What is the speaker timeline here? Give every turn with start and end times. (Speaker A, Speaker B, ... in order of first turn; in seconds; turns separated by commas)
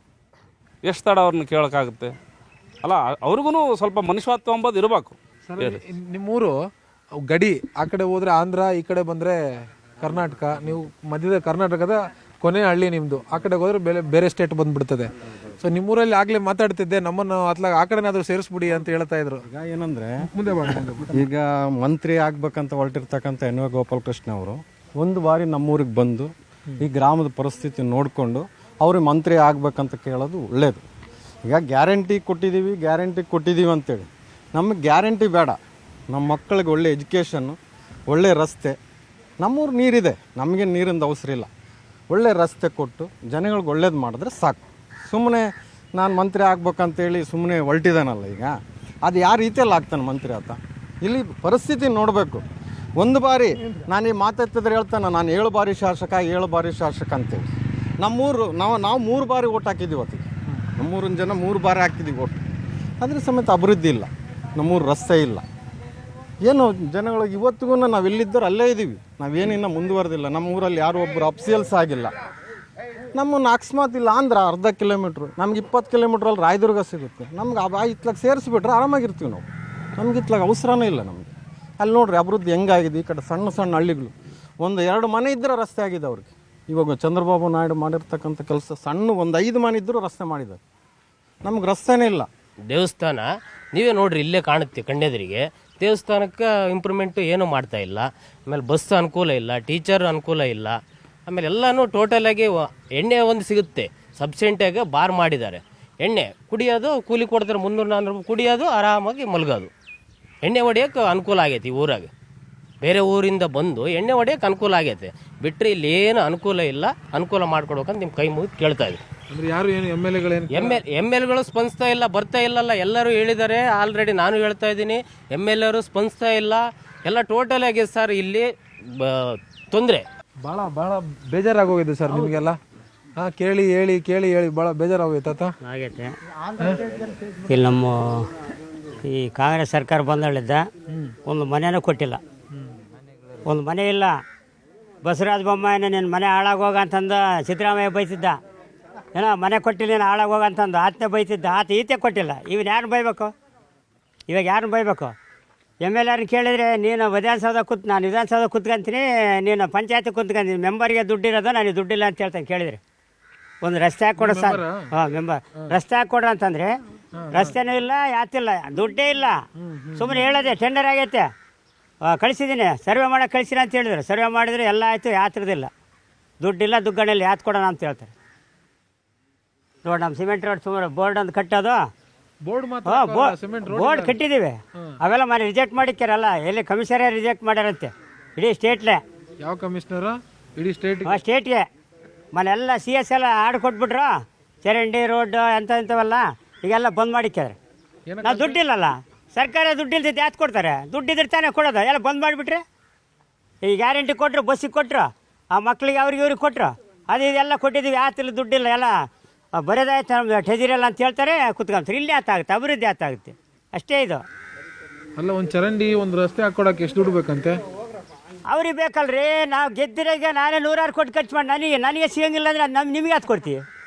Speaker A: 0.8-2.1, Speaker A: 2.8-5.8, Speaker B: 5.5-6.6, Speaker B: 7.3-9.4, Speaker B: 10.0-15.1, Speaker B: 15.6-19.4, Speaker C: 19.5-20.3, Speaker C: 21.1-30.8, Speaker C: 31.5-35.6, Speaker C: 36.1-37.6, Speaker C: 38.1-38.8, Speaker C: 39.4-41.5, Speaker C: 42.1-48.5, Speaker C: 49.0-52.4, Speaker C: 53.0-57.5, Speaker C: 58.0-60.3, Speaker C: 60.8-62.4, Speaker C: 63.0-65.4, Speaker C: 66.5-72.1, Speaker C: 73.2-79.5, Speaker C: 80.0-90.6, Speaker C: 91.4-92.3, Speaker D: 92.6-109.7, Speaker D: 110.4-112.1, Speaker D: 112.8-119.0, Speaker B: 119.3-120.8, Speaker D: 120.5-130.1, Speaker B: 130.4-132.6, Speaker B: 133.2-135.5, Speaker E: 135.6-136.1, Speaker E: 137.5-138.3, Speaker E: 139.0-140.7, Speaker E: 141.2-142.2, Speaker E: 143.5-144.2, Speaker E: 145.0-148.4, Speaker E: 149.1-153.3, Speaker E: 154.3-155.1, Speaker E: 155.8-162.8, Speaker E: 163.6-166.8, Speaker B: 164.2-164.9, Speaker B: 167.2-167.6, Speaker E: 167.3-169.4, Speaker B: 169.6-170.2, Speaker E: 170.0-171.3, Speaker E: 172.1-175.7, Speaker E: 176.4-178.1, Speaker E: 179.8-181.8, Speaker B: 182.4-184.2, Speaker E: 182.8-189.0, Speaker B: 189.4-191.2, Speaker E: 191.0-191.6, Speaker E: 192.3-197.6, Speaker B: 198.1-198.6, Speaker E: 198.2-202.6, Speaker E: 203.6-208.9, Speaker E: 209.6-214.2, Speaker B: 215.2-217.6, Speaker E: 218.5-223.6